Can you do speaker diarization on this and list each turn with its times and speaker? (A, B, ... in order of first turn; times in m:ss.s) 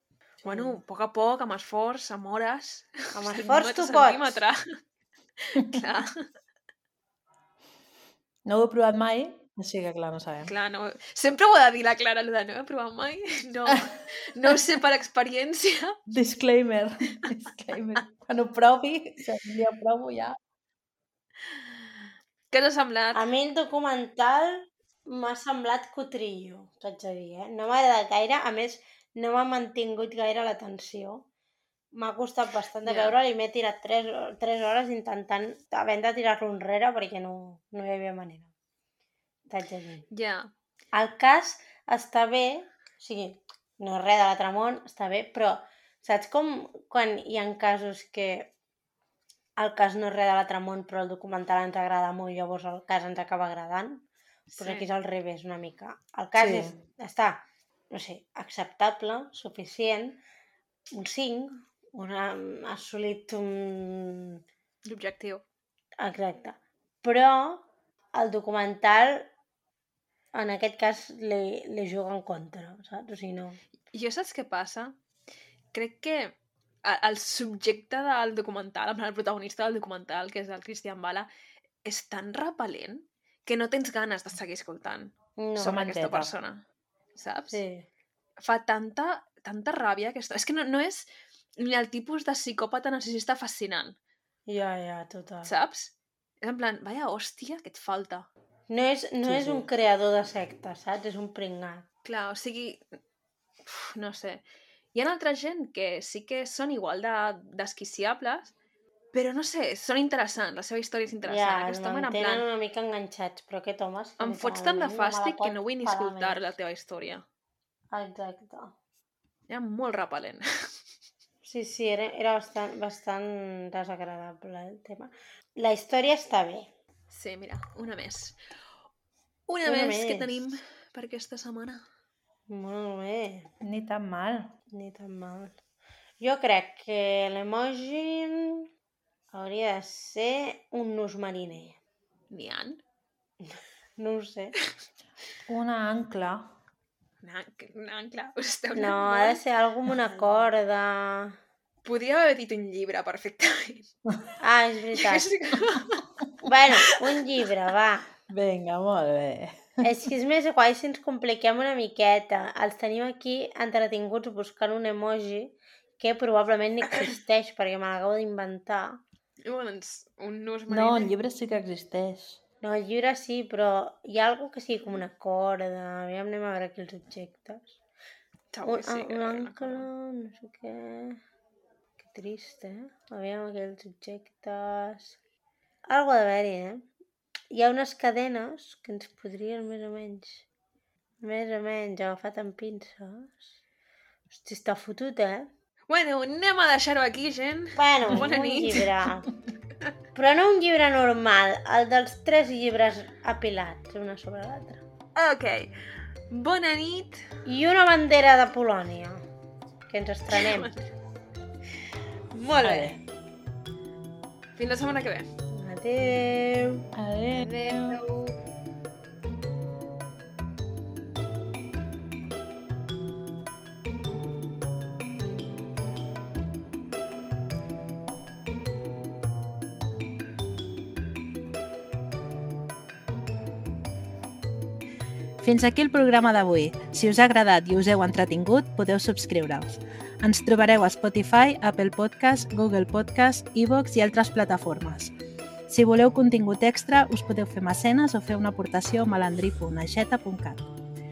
0:00.4-0:00.8 A
0:00.4-0:04.8 B
0:03.2-0:04.4 A
0:05.5-0:06.3 B
0:08.4-0:10.5 C
0:10.4-0:16.0 B
0:16.1-0:20.4 C
0:22.5-0:23.2 B
0:23.1-0:31.3 A
0:31.9-0:38.5 A
0:32.8-0:33.2 B
0:39.5-0:40.1 A
0:40.1-0:40.5 B
0:40.9-0:48.5 A
0:49.6-0:54.1 A
0:54.5-0:54.9 B
0:54.6-1:00.2 A
0:56.4-0:56.8 C
1:00.9-1:04.4 A
1:04.8-1:05.4 B
1:06.0-1:09.3 A
1:10.3-1:13.6 A
1:13.9-1:15.0 B
1:15.7-1:21.3 B
1:21.8-1:26.6 B
1:25.4-1:25.8 A
1:25.6-1:26.3 C
1:27.2-1:27.6 B
1:27.5-1:27.9 A
1:28.4-1:34.0 B
1:34.5-1:35.5 A
1:35.4-1:38.3 B
1:38.7-1:41.8 A
1:39.2-1:39.7 C
1:42.0-1:42.8 B
1:43.6-1:48.5 B
1:49.1-1:52.5 B
1:51.2-1:56.5 A
1:54.2-1:57.2 B
1:57.9-1:58.8 A
1:59.5-2:00.4 B
2:01.4-2:06.7 A
2:07.1-2:08.4 B
2:09.5-2:11.8 B
2:09.6-2:10.4 A
2:12.5-2:13.5 A
2:13.6-2:14.5 C
2:14.7-2:15.6 A
2:16.2-2:18.6 A
2:19.3-2:21.8 A
2:22.3-2:22.8 B
2:23.4-2:24.6 A
2:25.5-2:26.5 C
2:27.2-2:29.4 B
2:28.8-2:31.4 A
2:31.8-2:33.9 B
2:34.4-2:35.3 A
2:35.0-2:36.1 B
2:36.4-2:38.1 A
2:38.3-2:40.0 C
2:39.8-2:49.0 A
2:49.4-2:51.1 B
2:50.7-2:52.4 C
2:52.6-2:57.8 A
2:58.5-2:59.9 B
2:58.6-3:01.2 A
3:02.0-3:05.2 A
3:05.9-3:06.9 A
3:07.5-3:10.5 A
3:11.2-3:13.4 A
3:14.3-3:15.5 A
3:15.9-3:18.8 B
3:17.8-3:19.3 A
3:20.1-3:24.8 A
3:25.2-3:25.7 B
3:26.3-3:27.3 B
3:27.5-3:29.2 A
3:29.9-3:30.7 A
3:30.3-3:30.9 B
3:32.3-3:33.0 A
3:32.6-3:33.0 C
3:34.6-3:35.3 B
3:35.5-3:36.8 A
3:37.0-3:38.0 C
3:37.3-3:38.4 B
3:55.4-4:05.1 C
4:05.7-4:10.7 C